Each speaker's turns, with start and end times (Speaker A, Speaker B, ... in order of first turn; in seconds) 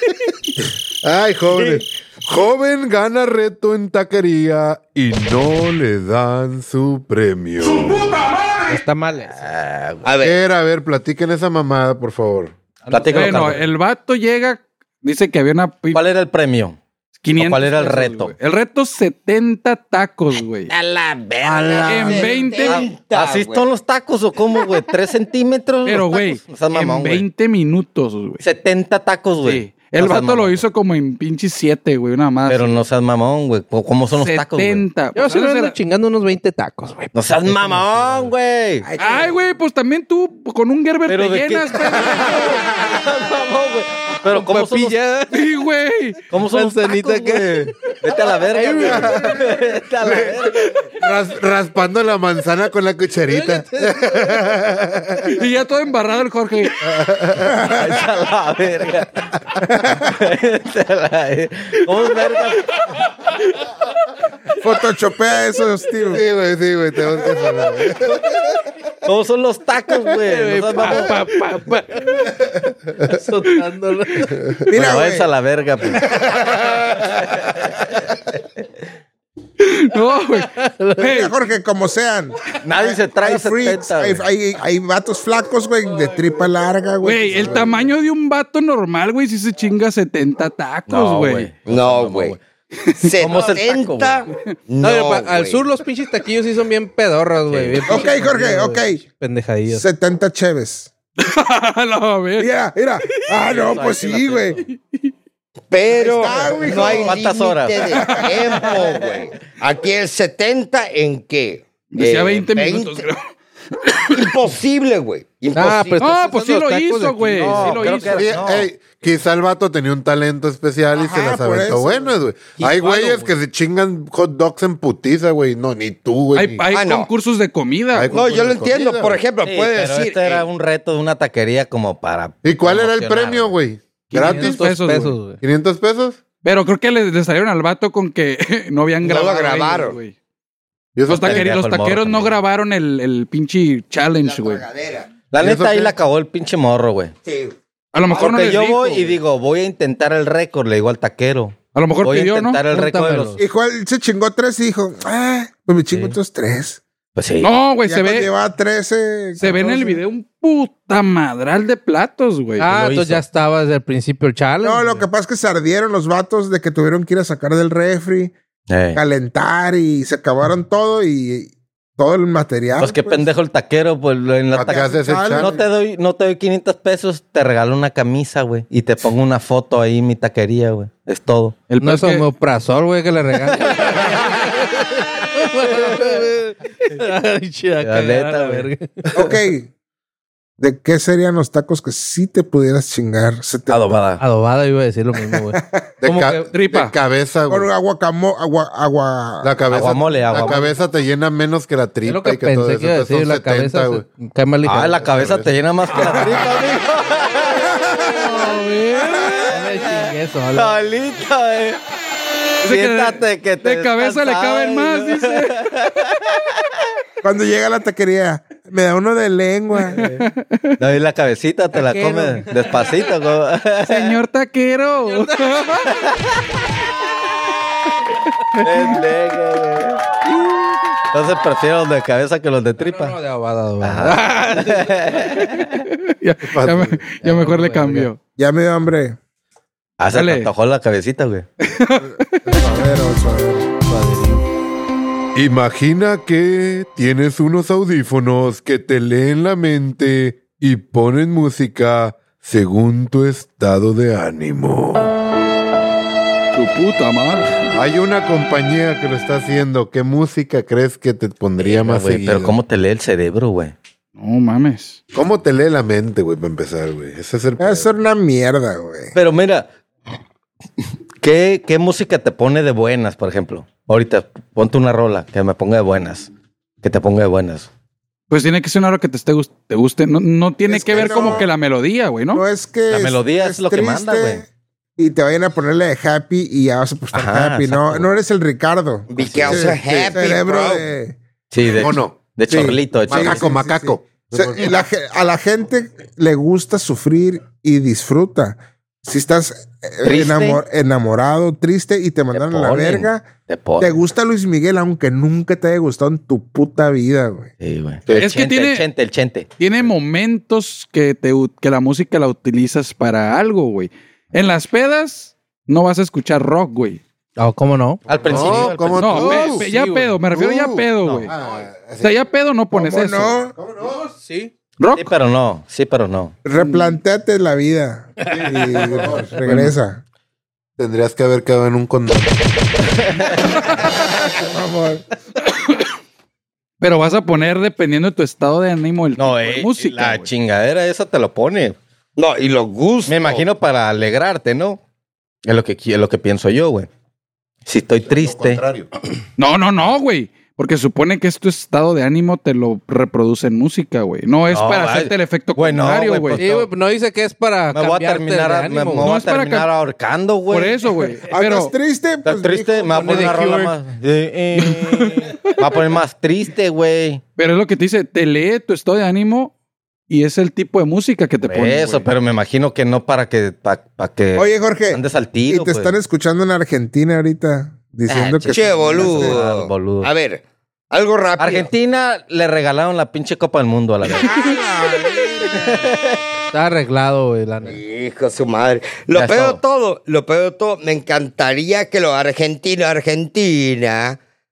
Speaker A: 1.0-8.1, 10.2-12.6, 21.4-21.8, 51.0-55.4, 56.8-57.5, 66.1-68.3, 118.1-126.7, 127.9-129.2, 132.4-134.6, 135.4-136.2, 140.9-141.5, 145.4-146.0, 174.5-175.6, 196.0-197.7, 199.4-204.1, 205.1-205.5, 236.5-237.0, 245.3-255.2, 257.7-262.6, 265.1-267.9, 291.7-292.2, 293.1-294.8, 318.2-319.7, 320.3-322.2, 323.6-324.0, 328.3-329.4, 330.8-332.5, 348.0-348.9
Speaker B: 1.5-1.8, 10.0-10.4, 20.7-23.7, 91.7-92.4, 93.0-95.6, 105.7-113.0, 114.1-116.1, 126.7-127.1, 128.1-130.4, 139.0-140.0, 144.2-145.1, 147.2-147.5, 148.1-148.6, 289.1-290.8, 342.2-343.5, 378.5-381.7, 387.6-394.2
Speaker C: 8.7-9.4, 12.9-13.7, 35.1-37.1, 44.2-45.4, 46.4-47.7, 48.5-49.6, 53.3-54.4, 70.3-72.3, 73.1-74.4, 80.5-81.0, 94.8-99.8, 115.5-118.0, 134.2-135.4, 152.7-153.4, 162.6-165.1, 181.8-189.1, 194.2-196.4, 202.1-205.1, 209.5-210.8, 221.8-223.0, 225.1-225.7, 230.3-230.8, 232.8-235.4, 237.2-238.1, 243.9-244.4, 317.4-320.2, 323.8-324.5, 356.4-359.2, 362.9-363.7, 386.5-387.8
Speaker D: 9.3-10.1, 12.9-13.6, 15.9-16.8, 17.4-18.3, 21.8-27.3, 28.4-30.6, 32.5-34.9, 37.1-38.9, 41.1-45.0, 46.3-50.8, 57.8-59.3, 60.0-62.8, 69.0-71.2, 74.7-76.2, 77.1-77.6, 82.6-84.2, 90.9-92.4, 93.2-94.3, 97.5-98.1, 103.4-104.6, 106.8-108.1, 117.4-118.7, 129.4-133.6, 141.1-142.4, 145.3-147.1, 148.1-153.4, 155.9-156.2, 157.2-157.5, 159.4-159.7, 162.7-163.2, 168.7-169.0, 172.8-181.7, 187.8-188.7, 193.7-194.2, 199.7-200.7, 204.7-208.0, 209.1-211.8, 212.6-216.6, 219.9-220.3, 220.8-224.2, 225.9-226.2, 228.6-230.1, 231.1-233.2, 233.8-235.8, 240.0-241.5, 261.6-263.8, 269.1-269.7, 271.2-276.3, 276.8-277.7, 281.0-281.4, 282.9-284.4, 287.1-288.1, 289.2-289.8, 291.5-293.5, 300.0-300.6, 302.3-304.0, 307.6-309.9, 318.1-319.5, 324.9-326.4, 329.5-329.7, 333.0-333.5, 339.2-341.8, 343.1-344.8, 345.4-346.9, 347.7-348.6, 354.5-356.7, 357.7-360.9, 362.2-367.2, 371.4-375.9, 378.1-380.1, 381.4-384.6, 385.5-386.2, 389.1-389.6
Speaker E: 13.1-16.0, 17.2-20.7, 21.8-22.8, 25.9-28.4, 29.4-32.8, 34.1-35.8, 39.0-42.7, 45.3-46.2, 55.3-56.7, 79.6-81.3, 87.0-91.5, 92.8-93.2, 101.2-102.5, 104.7-105.0, 108.0-108.7, 111.9-114.3, 116.0-118.3, 126.3-128.2, 134.2-135.2, 136.4-140.1, 141.1-144.7, 147.9-149.1, 151.7-152.6, 157.4-158.3, 159.4-162.7, 181.7-182.2, 196.5-196.9, 208.1-209.5, 212.6-215.7, 219.9-220.8, 223.8-225.9, 228.6-229.0, 235.8-238.2, 240.1-240.5, 241.6-242.7, 256.6-257.5, 264.2-265.0, 278.3-282.4, 308.2-308.9, 309.6-317.0, 318.9-321.3, 322.0-323.4, 324.8-325.1, 326.6-326.9, 335.6-335.8, 336.8-340.3, 349.4-356.4, 359.0-359.7, 360.5-361.7, 364.6-365.6, 367.4-369.5, 370.1-372.1
Speaker F: 39.0-39.3, 57.5-58.0, 59.8-60.1, 64.6-66.2, 74.7-75.3, 81.1-87.9, 97.9-99.0, 99.7-100.9, 102.4-104.6, 105.9-107.2, 121.0-122.2, 153.4-156.8, 157.8-160.0, 164.6-168.3, 168.9-173.3, 174.6-175.6, 189.1-189.7, 190.6-193.9, 195.4-195.9, 197.5-199.6, 206.2-206.7, 207.7-209.5, 217.2-220.1, 238.4-239.2, 242.5-243.7, 267.6-269.1, 280.7-281.5, 282.3-284.5, 285.0-291.2, 292.5-303.3, 303.8-307.5, 322.7-323.6, 326.4-330.0, 333.9-335.0, 361.3-363.4, 374.4-379.4, 384.1-385.9